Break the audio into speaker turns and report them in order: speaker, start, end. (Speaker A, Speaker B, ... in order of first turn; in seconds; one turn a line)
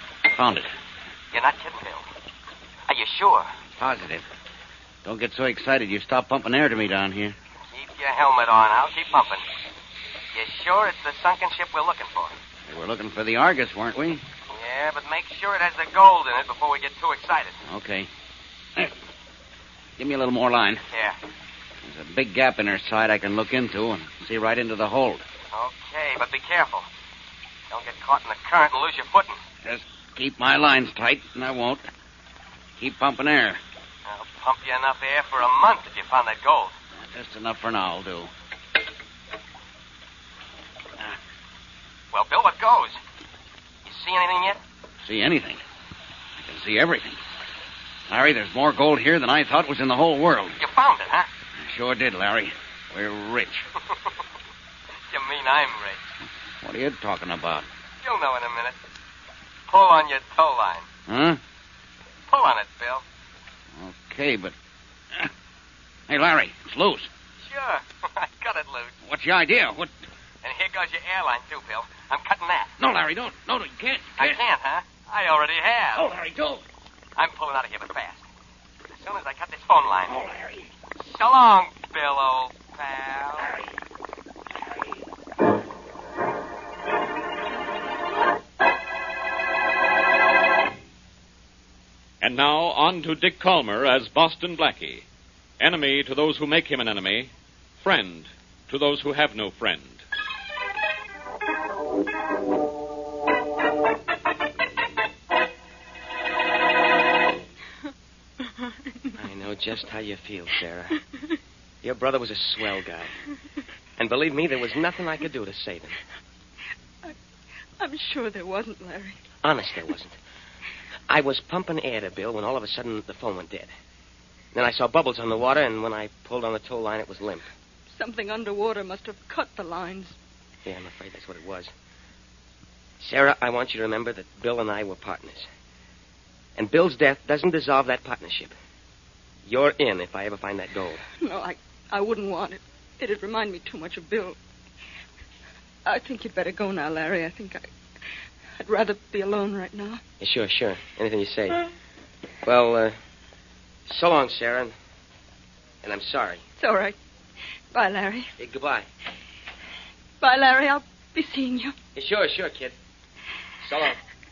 Speaker A: 0.3-0.7
Speaker B: 1.3-2.0
Speaker B: 2.9-3.5
Speaker A: 3.8-4.2
Speaker A: 5.0-7.3
Speaker B: 7.7-9.4
Speaker B: 10.3-12.3
Speaker A: 12.7-14.2
Speaker B: 14.5-17.6
Speaker A: 17.6-18.1
Speaker A: 20.0-20.8
Speaker A: 21.8-25.2
Speaker B: 25.5-26.9
Speaker B: 27.7-29.4
Speaker A: 29.6-31.8
Speaker A: 32.8-33.6
Speaker B: 34.1-36.7
Speaker A: 37.0-38.3
Speaker B: 42.1-43.0
Speaker B: 43.9-44.6
Speaker A: 45.0-45.6
Speaker A: 46.4-47.2
Speaker A: 48.1-50.6
Speaker B: 50.6-51.3
Speaker A: 51.6-53.6
Speaker B: 55.1-56.0
Speaker A: 56.6-57.7
Speaker B: 58.0-58.7
Speaker B: 59.7-60.9
Speaker A: 61.1-61.4
Speaker B: 62.3-63.0
Speaker A: 63.8-64.5
Speaker A: 66.1-67.1
Speaker B: 67.5-68.9
Speaker A: 69.0-69.9
Speaker B: 70.4-72.7
Speaker A: 72.8-74.4
Speaker B: 74.2-76.1
Speaker B: 77.2-78.2
Speaker B: 78.9-80.2
Speaker B: 81.1-83.5
Speaker C: 92.2-95.0
Speaker C: 95.6-100.0
Speaker B: 109.2-111.0
Speaker B: 111.8-113.1
Speaker B: 114.0-115.9
Speaker D: 117.8-119.2
Speaker B: 119.4-120.1
Speaker B: 121.1-123.7
Speaker B: 124.5-127.5
Speaker D: 127.9-130.2
Speaker B: 130.7-131.7
Speaker B: 133.0-135.4
Speaker B: 136.6-138.5
Speaker B: 139.5-141.0
Speaker D: 141.2-144.4
Speaker D: 145.8-147.7
Speaker D: 148.6-150.0
Speaker B: 150.2-151.6
Speaker B: 152.4-152.9
Speaker B: 153.9-154.7
Speaker B: 155.8-156.4
Speaker D: 156.6-156.9
Speaker D: 157.7-158.3
Speaker B: 158.4-158.9
Speaker D: 160.2-161.7
Speaker B: 161.9-162.7
Speaker B: 163.6-164.0